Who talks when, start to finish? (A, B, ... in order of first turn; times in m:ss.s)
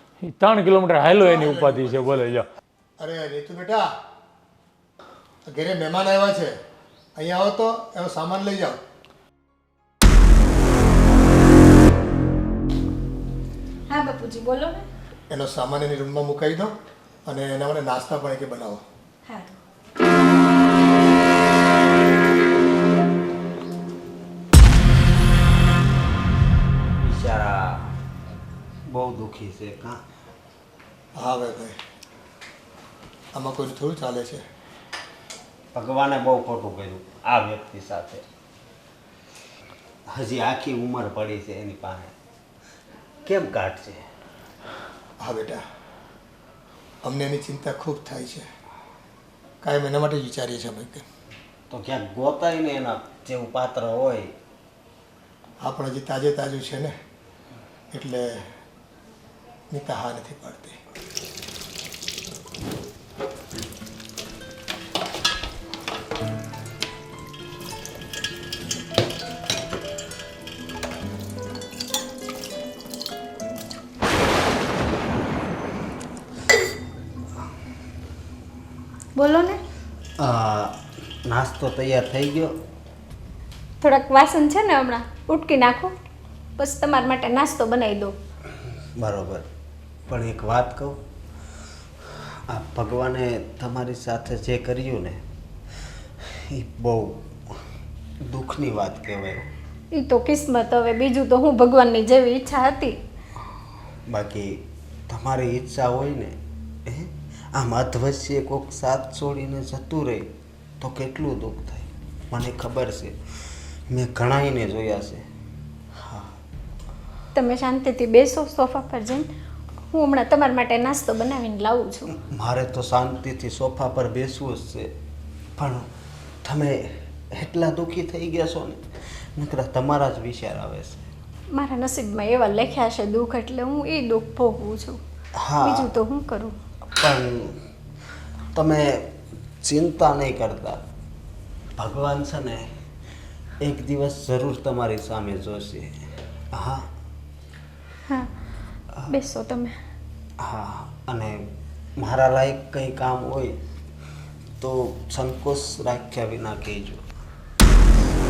0:00.2-0:02.4 A
0:01.1-0:02.2 B
0:03.0-0:03.9 B
0:05.4-0:06.6 B
0:07.2-0:08.8 B
0:13.9-0:14.8 C
0:15.3-0:16.7 B
0:17.2-0:18.8 B
0:19.2-0:19.6 C
0:27.0-0:27.9 D
0:28.9-0:30.0 D
0:31.2-0:31.8 B
0:33.3-0:34.4 B
0:35.7-0:38.2 D
0:40.1-0:42.1 D
0:43.2-0:44.0 D
0:45.2-0:45.6 B
0:47.0-0:48.5 B
0:49.6-0:51.0 B
0:51.7-0:54.3 D
0:55.6-0:56.9 B
0:57.9-0:58.5 B
0:59.7-1:00.8 B
1:19.2-1:19.6 C
1:20.2-1:22.6 D
1:23.8-1:25.9 C
1:26.6-1:28.1 C
1:29.0-1:29.5 D
1:30.1-1:31.0 D
1:32.1-1:35.2 D
1:36.2-1:37.6 D
1:38.2-1:39.5 D
1:39.9-1:43.0 C
1:44.1-1:50.3 D
1:50.8-1:53.2 D
1:53.9-1:55.2 D
1:55.9-1:56.4 D
1:57.3-1:59.3 C
1:59.9-2:02.1 C
2:02.1-2:04.9 D
2:05.6-2:05.9 D
2:06.4-2:11.1 D
2:11.5-2:15.0 C
2:15.4-2:15.9 D
2:15.6-2:16.6 C
2:17.0-2:17.6 D
2:18.5-2:20.8 D
2:21.8-2:22.7 D
2:23.6-2:26.0 D
2:26.5-2:26.9 D
2:29.1-2:29.8 C
2:30.4-2:33.6 D
2:34.6-2:37.1 D